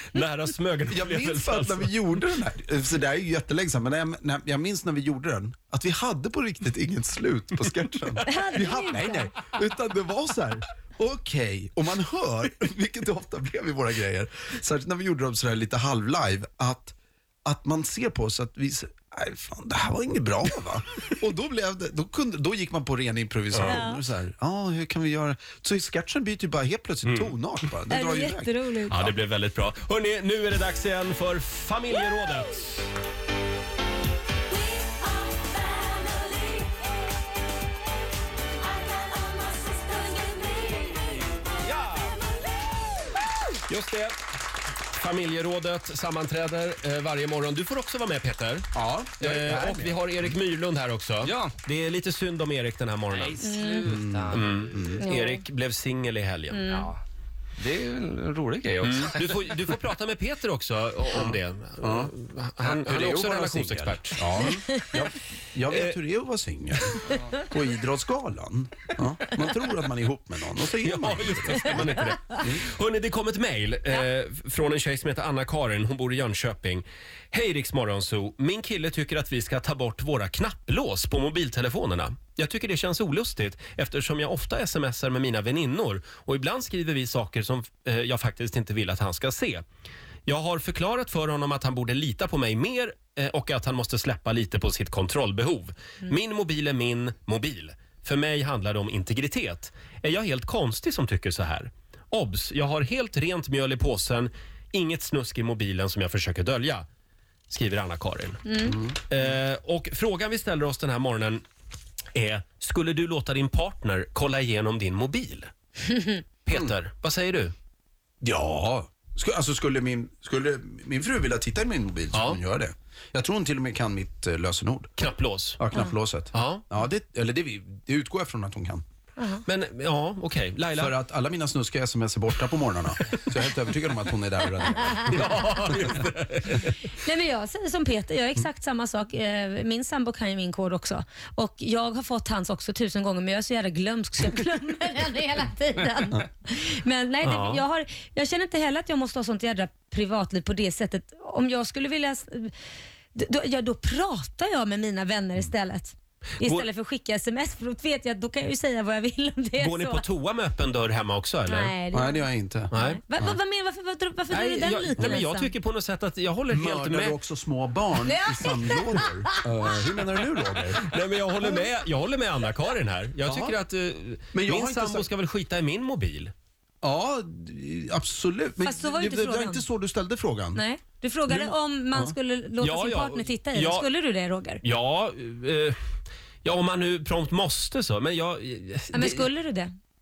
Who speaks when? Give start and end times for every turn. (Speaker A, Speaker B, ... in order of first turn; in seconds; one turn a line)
Speaker A: 0.1-1.9
Speaker B: 0.9-29.1
Speaker C: 8.2-9.3
Speaker A: 23.5-23.8
Speaker C: 23.6-24.0
Speaker A: 27.0-27.3
Speaker C: 27.9-29.0
Speaker A: 28.9-32.9
Speaker C: 35.8-36.4
Speaker C: 39.1-41.1
Speaker A: 41.6-42.1
Speaker A: 43.7-44.1
Speaker A: 44.9-53.4
Speaker B: 48.7-49.9
Speaker D: 51.2-51.5
Speaker D: 53.1-54.8
Speaker C: 53.4-53.8
Speaker B: 53.9-55.0
Speaker A: 54.3-56.6
Speaker C: 54.9-55.4
Speaker C: 56.5-56.9
Speaker D: 57.6-59.8
Speaker A: 58.8-64.5
Speaker B: 61.1-72.6
Speaker A: 65.7-65.9
Speaker A: 70.8-89.6
Speaker A: 90.3-106.8
Speaker A: 107.5-111.4
Speaker C: 108.5-108.8
Speaker B: 108.7-109.3
Speaker A: 112.1-115.5
Speaker A: 116.4-117.5
Speaker B: 118.2-124.9
Speaker A: 122.1-122.4
Speaker A: 125.0-125.6
Speaker B: 125.6-128.8
Speaker A: 126.3-126.6
Speaker C: 129.2-129.4
Speaker A: 129.4-130.9
Speaker B: 130.8-136.0
Speaker A: 135.1-136.7
Speaker C: 136.9-152.5
Speaker A: 147.2-147.6
Speaker C: 153.1-160.0
Speaker A: 156.4-156.7
Speaker A: 159.6-161.7
Speaker C: 161.5-165.5
Speaker B: 161.9-163.4
Speaker A: 162.7-163.0
Speaker A: 164.3-167.2
Speaker B: 166.5-170.8
Speaker C: 168.0-169.8
Speaker A: 170.9-176.3
Speaker B: 173.2-173.6
Speaker B: 174.3-175.1
Speaker B: 176.8-180.6
Speaker C: 178.6-179.6
Speaker C: 180.5-184.6
Speaker B: 181.3-182.1
Speaker A: 182.6-183.9
Speaker A: 184.6-185.8
Speaker A: 186.4-189.2
Speaker C: 188.9-189.7